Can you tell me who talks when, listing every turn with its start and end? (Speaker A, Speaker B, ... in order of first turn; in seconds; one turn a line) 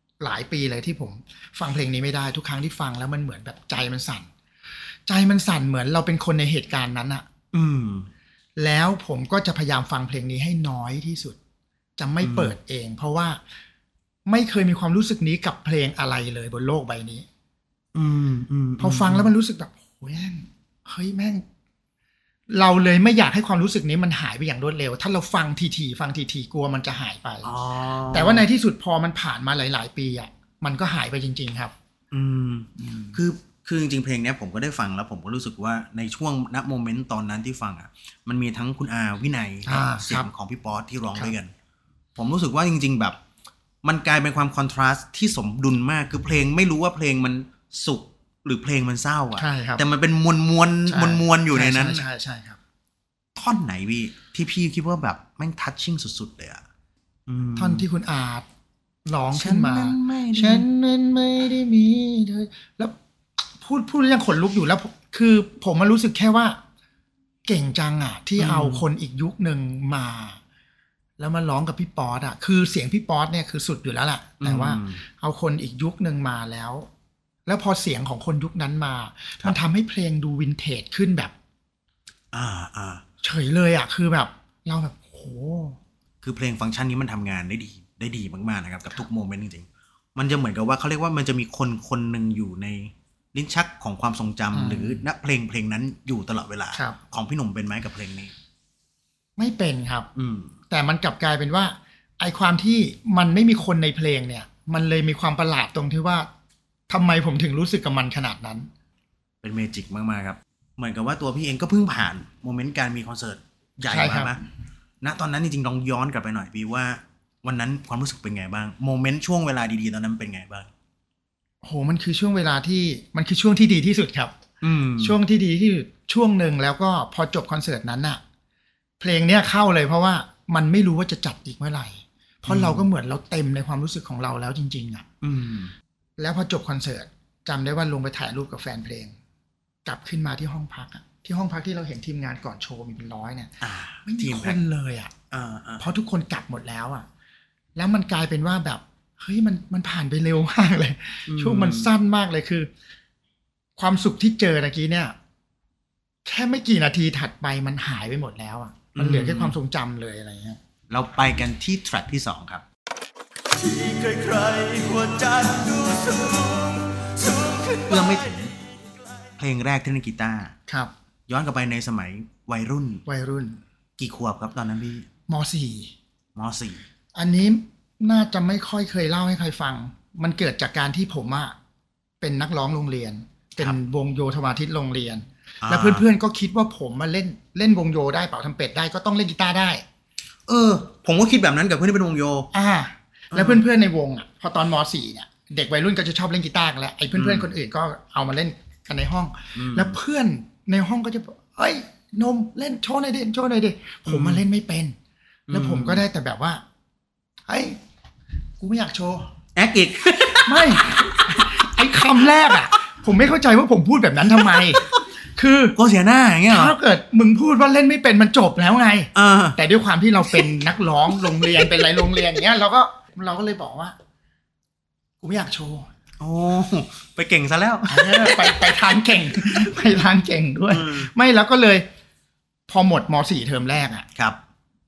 Speaker A: 0.2-4.3
Speaker A: 5.1-7.3
Speaker B: 7.5-8.1
Speaker A: 8.6-11.4
Speaker A: 12.0-13.4
Speaker B: 12.2-12.5
Speaker A: 14.3-17.3
Speaker B: 17.9-19.3
Speaker A: 18.8-21.4
Speaker A: 22.5-27.5
Speaker B: 27.4-28.5
Speaker A: 28.1-31.7
Speaker B: 32.1-41.5
Speaker A: 32.8-33.2
Speaker A: 39.7-40.3
Speaker B: 42.2-43.2
Speaker B: 43.8-52.0
Speaker A: 49.4-49.8
Speaker A: 50.9-52.6
Speaker B: 53.4-56.6
Speaker B: 57.3-57.9
Speaker A: 57.6-58.5
Speaker A: 59.1-66.6
Speaker B: 59.3-60.7
Speaker A: 67.5-70.4
Speaker B: 68.4-68.9
Speaker A: 71.2-76.9
Speaker B: 74.4-75.0
Speaker A: 77.5-81.3
Speaker B: 82.3-83.0
Speaker A: 83.2-85.8
Speaker B: 86.2-98.3
Speaker A: 94.5-95.0
Speaker A: 99.4-100.1
Speaker B: 100.2-100.5
Speaker A: 100.7-106.3
Speaker A: 106.9-108.7
Speaker B: 109.4-114.4
Speaker A: 113.9-114.4
Speaker B: 115.0-120.7
Speaker A: 121.6-124.3
Speaker B: 124.6-125.2
Speaker A: 125.0-128.2
Speaker A: 129.0-135.1
Speaker B: 132.5-132.9
Speaker B: 135.2-135.7
Speaker A: 136.2-139.2
Speaker A: 139.8-145.1
Speaker B: 143.6-144.6
Speaker B: 145.3-145.8
Speaker A: 145.8-147.1
Speaker A: 147.8-152.7
Speaker B: 151.3-151.9
Speaker A: 153.8-155.2
Speaker A: 156.3-160.6
Speaker B: 158.9-159.6
Speaker B: 160.9-162.7
Speaker C: 163.6-168.3
Speaker B: 167.9-168.5
Speaker B: 169.4-170.6
Speaker A: 170.7-170.9
Speaker B: 171.3-173.0
Speaker A: 173.1-173.6
Speaker B: 174.0-175.1
Speaker A: 175.3-175.9
Speaker B: 176.3-176.8
Speaker A: 177.2-181.6
Speaker A: 182.2-189.8
Speaker B: 185.6-186.1
Speaker B: 190.5-192.5
Speaker A: 192.5-205.0
Speaker B: 193.3-193.7
Speaker B: 197.1-197.5
Speaker B: 199.6-200.0
Speaker B: 204.1-204.4
Speaker B: 205.5-206.0
Speaker A: 205.5-206.6
Speaker A: 207.5-207.8
Speaker A: 208.6-209.3
Speaker B: 209.6-212.6
Speaker A: 210.4-215.8
Speaker B: 214.3-215.0
Speaker B: 215.8-216.7
Speaker A: 216.5-223.9
Speaker B: 219.1-219.6
Speaker B: 221.4-222.0
Speaker A: 225.2-225.9
Speaker B: 226.2-229.8
Speaker A: 227.9-231.8
Speaker B: 230.7-231.1
Speaker A: 232.7-234.1